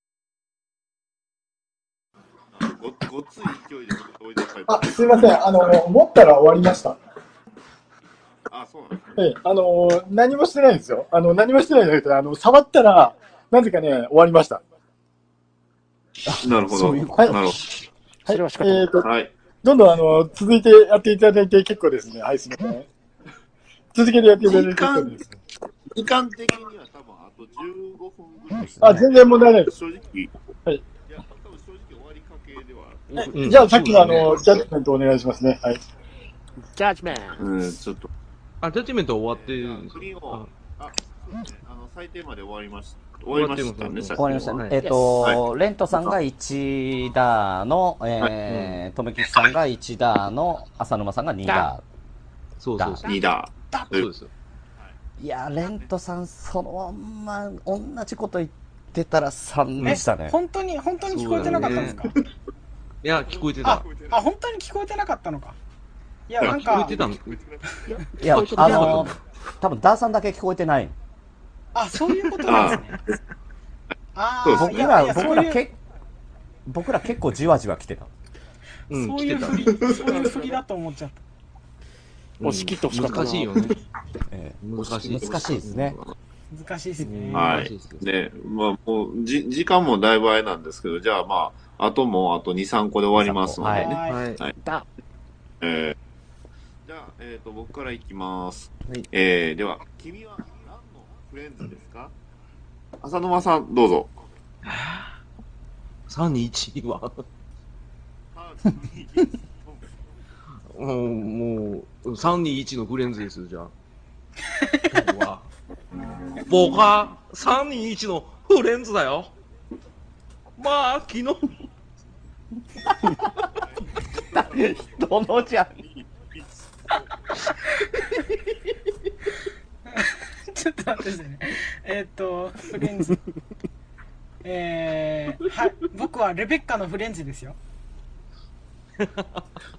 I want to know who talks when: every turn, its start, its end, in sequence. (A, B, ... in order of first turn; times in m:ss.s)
0:02.5-0:05.4 A
0:04.7-0:07.0 B
0:08.5-0:09.1 A
0:09.2-0:14.6 B
0:16.3-0:17.6 C
0:16.4-0:17.7 A
0:17.1-0:17.4 B
0:18.3-0:19.1 B
0:18.3-0:18.9 D
0:19.0-0:19.4 A
0:19.6-0:22.9 B
0:23.9-0:25.3 B
0:24.4-0:25.2 A
0:25.8-0:30.4 A
0:28.6-0:29.1 C
0:28.8-0:29.7 B
0:31.0-0:34.2 A
0:33.1-0:34.5 E
0:33.4-0:35.8 B
0:36.7-0:37.5 D
0:37.4-0:38.1 A
0:38.6-0:40.5 E
0:39.3-0:45.4 A
0:43.3-0:44.8 E
0:44.2-0:51.8 C
0:44.8-0:45.2 D
0:48.5-0:48.8 E
0:51.4-0:51.7 D
0:52.6-0:53.1 E
0:52.8-0:53.1 C
0:53.1-0:54.1 A
0:53.9-0:54.3 E
0:55.2-1:00.4 C
0:59.8-1:00.0 E
0:59.8-1:02.2 F
1:01.0-1:02.0 E
1:01.4-1:01.8 A
1:01.7-1:02.0 C
1:03.0-1:03.8 E
1:03.2-1:04.2 A
1:03.6-1:05.6 F
1:06.3-1:07.0 F
1:06.4-1:08.0 A
1:06.4-1:07.4 E
1:07.9-1:08.9 D
1:08.2-1:11.0 C
1:08.3-1:09.2 E
1:08.7-1:09.0 F
1:11.7-1:13.0 F
1:12.4-1:13.2 A
1:14.1-1:15.6 F
1:14.4-1:15.4 A
1:14.5-1:15.8 C
1:16.7-1:18.1 C
1:18.9-1:19.9 E
1:18.9-1:21.2 F
1:19.7-1:20.2 A
1:22.4-1:23.8 E
1:22.4-1:23.8 D
1:24.3-1:26.0 C
1:24.6-1:26.1 E
1:24.8-1:26.2 A
1:26.5-1:27.6 F
1:27.0-1:28.1 E
1:27.3-1:34.6 A
1:33.2-1:34.0 C
1:33.6-1:34.2 F
1:34.1-1:34.4 E
1:34.6-1:34.9 D
1:35.6-1:36.0 A
1:36.8-1:42.1 A
1:43.0-1:44.2 A
1:44.6-1:45.1 E
1:46.1-1:47.1 E
1:48.3-1:49.9 A
1:50.7-1:53.7 E
1:54.9-1:55.5 E
1:56.5-1:59.3 E
2:00.6-2:01.5 E
2:02.8-2:03.3 C
2:03.5-2:07.0 A
2:04.2-2:05.8 C
2:09.9-2:13.2 F
2:14.4-2:17.6 F
2:19.0-2:19.4 E